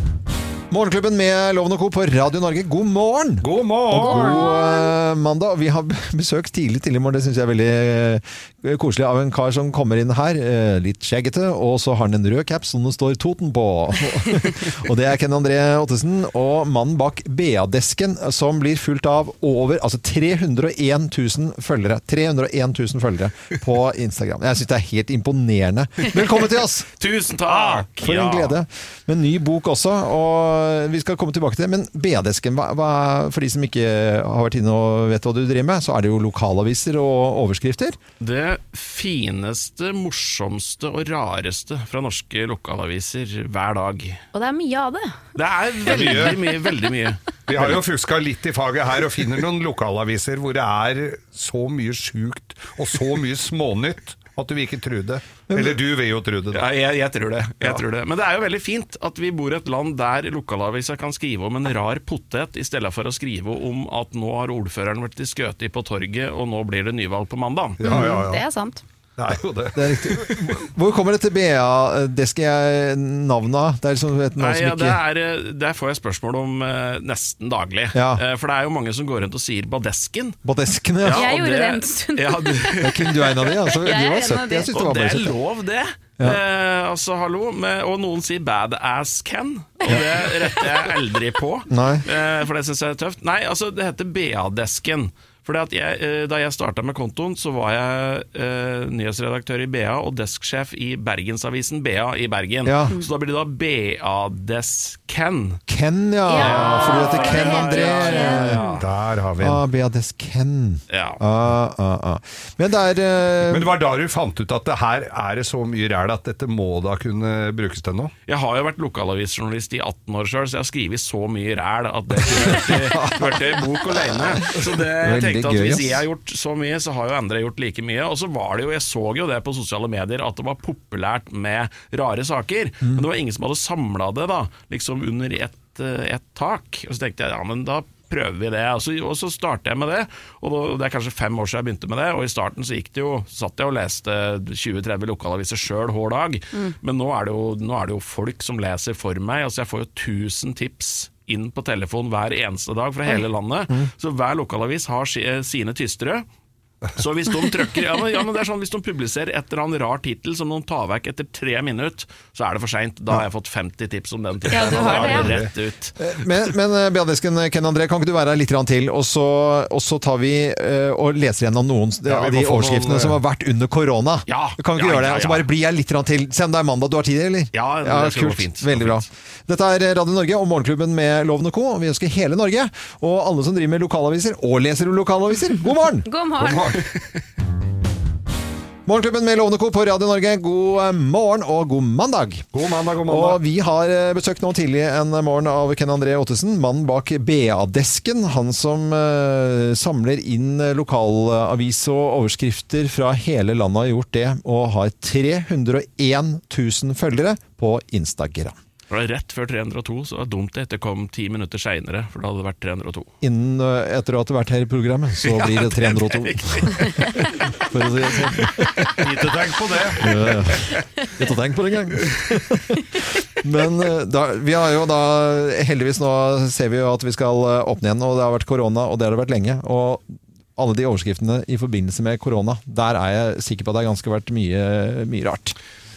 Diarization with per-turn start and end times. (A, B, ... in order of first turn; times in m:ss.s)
0:00.7-0:26.9 A
0:03.4-0:04.5 B
0:04.1-0:04.9 C
0:27.0-0:28.6 D
0:27.5-0:38.0 A
0:38.2-0:44.2 D
0:44.3-0:45.2 C
0:45.4-0:47.2 D
0:45.8-0:46.4 B
0:47.5-0:56.6 B
0:55.5-0:55.8 A
0:56.5-1:07.8 D
1:07.8-1:08.4 B
1:07.8-1:08.8 C
1:07.9-1:08.2 A
1:09.2-1:10.6 B
1:09.7-1:15.0 A
1:14.4-1:20.4 D
1:17.9-1:18.2 A
1:20.4-1:21.3 A
1:21.0-1:23.2 D
1:21.1-1:24.7 C
1:22.8-1:25.4 A
1:24.7-1:45.6 D
1:31.7-1:32.1 A
1:42.6-1:43.0 A
1:45.7-1:48.7 A
1:46.3-1:48.8 C
1:46.3-1:48.8 D
1:48.8-1:49.6 B
1:49.4-1:53.7 A
1:50.9-1:51.2 D
1:53.4-1:58.1 B
1:58.3-2:36.3 D
2:02.3-2:06.0 A
2:37.0-2:46.0 D
2:44.5-2:45.5 B
2:44.5-2:45.3 C
2:46.0-3:06.1 A
2:52.1-2:53.2 B
2:54.3-2:55.5 D
2:57.5-2:59.0 D
3:06.1-3:06.9 C
3:06.4-3:06.8 B
3:08.9-3:12.5 A
3:12.5-3:13.4 B
3:13.0-3:28.6 A
3:28.9-3:33.1 D
3:33.2-3:39.1 A
3:35.3-3:37.3 D
3:39.0-3:40.4 B
3:40.0-3:50.0 A
3:50.6-3:55.6 A